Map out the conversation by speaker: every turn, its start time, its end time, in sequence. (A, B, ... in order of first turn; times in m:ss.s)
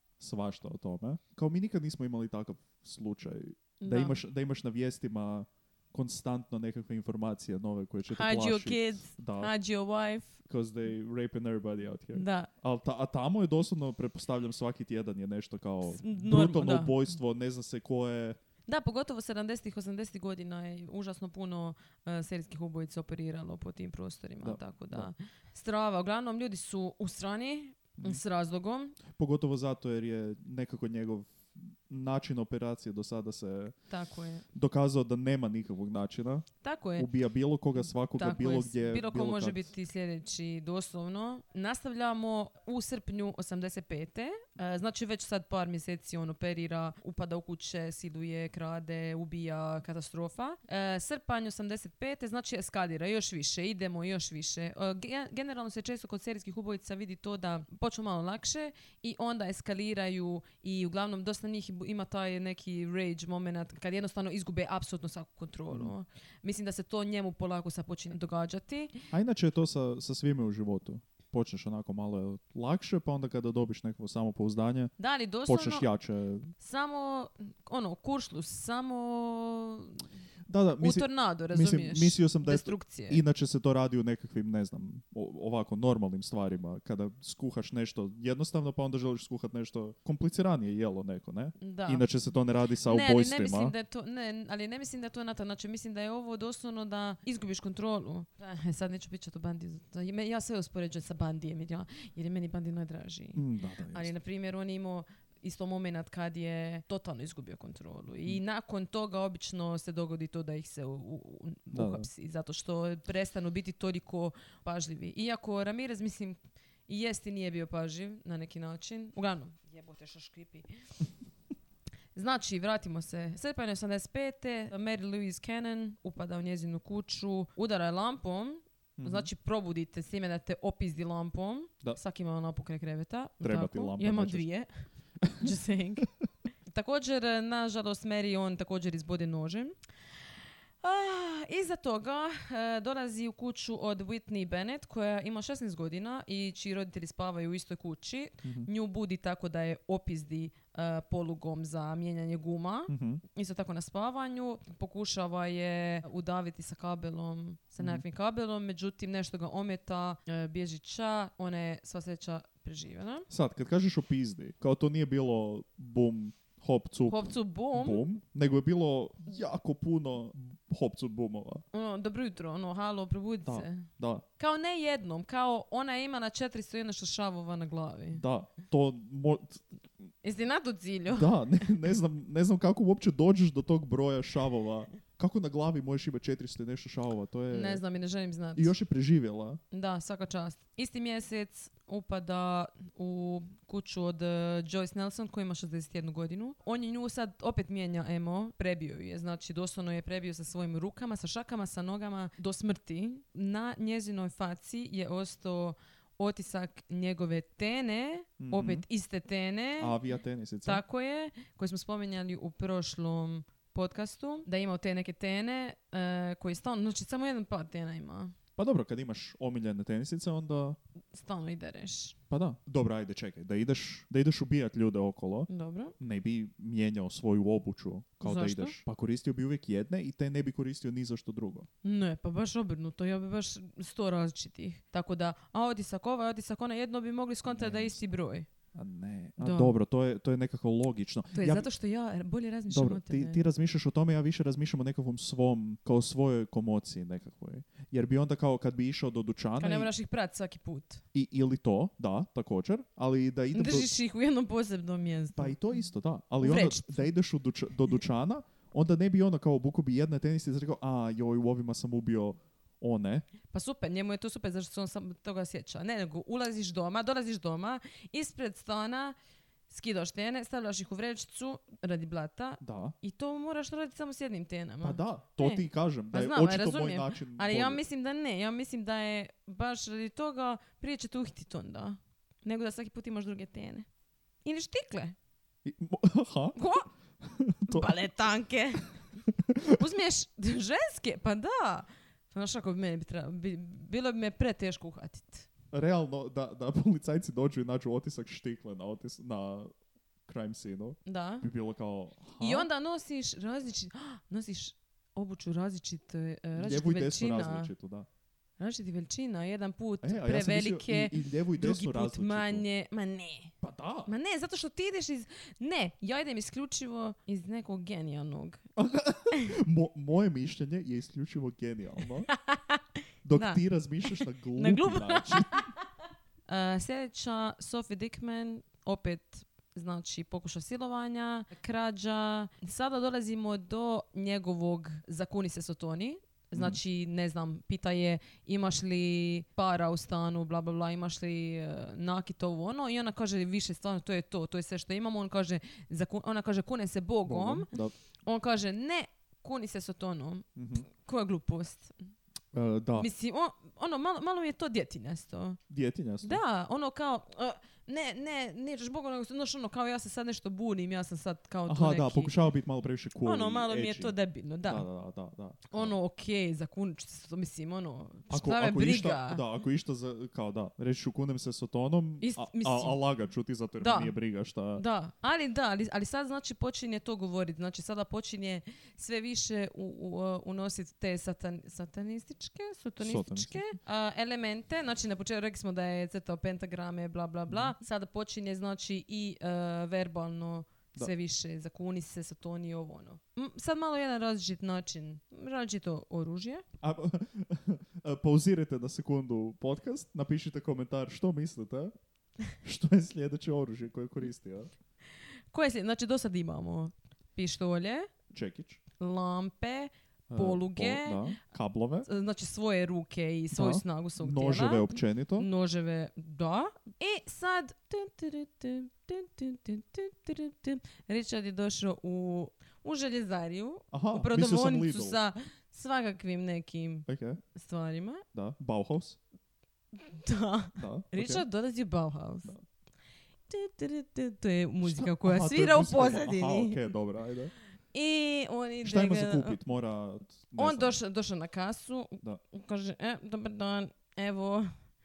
0:00.2-0:09.5 A
0:03.8-0:04.2 B
0:08.1-0:10.4 B
0:10.5-0:18.4 A
0:12.1-0:12.5 B
0:15.9-0:17.0 B
0:18.7-0:29.0 B
0:24.4-0:25.1 A
0:29.2-0:33.8 A
0:33.9-0:34.4 B
0:34.5-0:39.7 A
0:36.6-0:37.1 B
0:38.1-1:08.9 B
1:09.1-1:14.9 A
1:15.0-1:15.9 B
1:15.4-1:16.5 A
1:16.6-1:20.0 B
1:20.5-1:33.7 A
1:20.8-1:23.2 B
1:31.6-1:32.1 B
1:32.8-2:00.7 B
1:43.4-1:44.1 A
1:51.7-1:52.1 A
2:02.1-2:14.8 B
2:09.0-2:09.3 A
2:13.4-2:14.4 A
2:15.4-2:16.1 B
2:16.7-2:19.8 B
2:20.8-2:43.3 B
2:28.4-2:28.7 A
2:32.9-2:33.2 A
2:37.8-2:38.0 A
2:43.3-2:51.6 A
2:47.0-2:48.0 B
2:51.7-2:58.2 B
2:53.4-2:54.2 A
2:58.1-2:59.6 A
3:00.2-3:01.4 B
3:01.1-3:07.8 A
3:07.5-3:08.7 B
3:08.6-3:09.6 A
3:09.7-3:30.0 B
3:28.4-3:28.9 A
3:29.8-3:30.8 A
3:30.6-3:38.4 B
3:38.6-3:40.8 A
3:41.1-3:42.2 B
3:42.3-3:51.7 A
3:45.5-3:45.9 B
3:48.2-3:48.8 B
3:51.8-3:58.5 B
3:57.5-3:58.0 A
3:58.7-4:01.7 A
3:59.4-3:59.8 B
4:01.3-4:03.4 B
4:02.7-4:09.9 A
4:09.6-4:11.0 B
4:11.1-4:13.9 A
4:13.5-4:15.6 B
4:15.4-4:23.2 A
4:16.4-4:17.1 B
4:23.5-4:29.2 B
4:29.7-4:43.9 B
4:32.6-4:32.9 A
4:34.8-4:37.8 A
4:44.4-4:45.1 B
4:45.6-4:46.6 A
4:46.6-4:46.9 B
4:47.2-4:47.9 A
4:47.7-4:48.9 B
4:49.5-4:49.8 A
4:49.8-4:55.5 B
4:55.7-4:59.7 A
5:00.2-5:02.7 A
5:01.0-5:01.4 B
5:02.4-5:07.7 B
5:06.6-5:08.1 A
5:08.6-5:13.5 B
5:10.0-5:12.6 A
5:13.6-5:14.1 A
5:14.1-5:18.6 B
5:18.8-5:22.3 A
5:22.3-5:22.8 B
5:23.2-5:25.6 A
5:23.3-5:23.6 B
5:24.2-5:25.7 B
5:26.5-5:47.7 B
5:47.2-5:47.9 A
5:48.2-5:52.0 B
5:50.6-5:50.9 A
5:52.5-5:53.1 A
5:53.0-5:55.6 B
5:55.7-5:56.4 A
5:56.2-6:02.3 B
6:01.7-6:04.1 A
6:03.2-6:04.8 B
6:04.6-6:05.9 A
6:05.7-6:09.4 B
6:08.3-6:14.8 A
6:12.2-6:13.0 B
6:13.8-6:14.1 B
6:14.7-6:36.6 B
6:23.0-6:23.8 A
6:27.5-6:27.8 A
6:36.8-6:41.9 A
6:42.6-6:44.7 A
6:45.5-6:48.1 B
6:48.3-6:48.8 A
6:49.0-6:51.4 B
6:50.3-6:52.1 A
6:52.0-7:08.2 B
6:53.5-6:55.5 A
7:03.9-7:05.2 A
7:07.1-7:07.4 A
7:08.3-7:09.2 A
7:10.0-7:12.5 B
7:10.8-7:11.4 A
7:13.5-7:16.8 B
7:14.8-7:17.5 A
7:17.9-7:19.6 B
7:18.8-7:21.0 A
7:20.6-7:24.7 B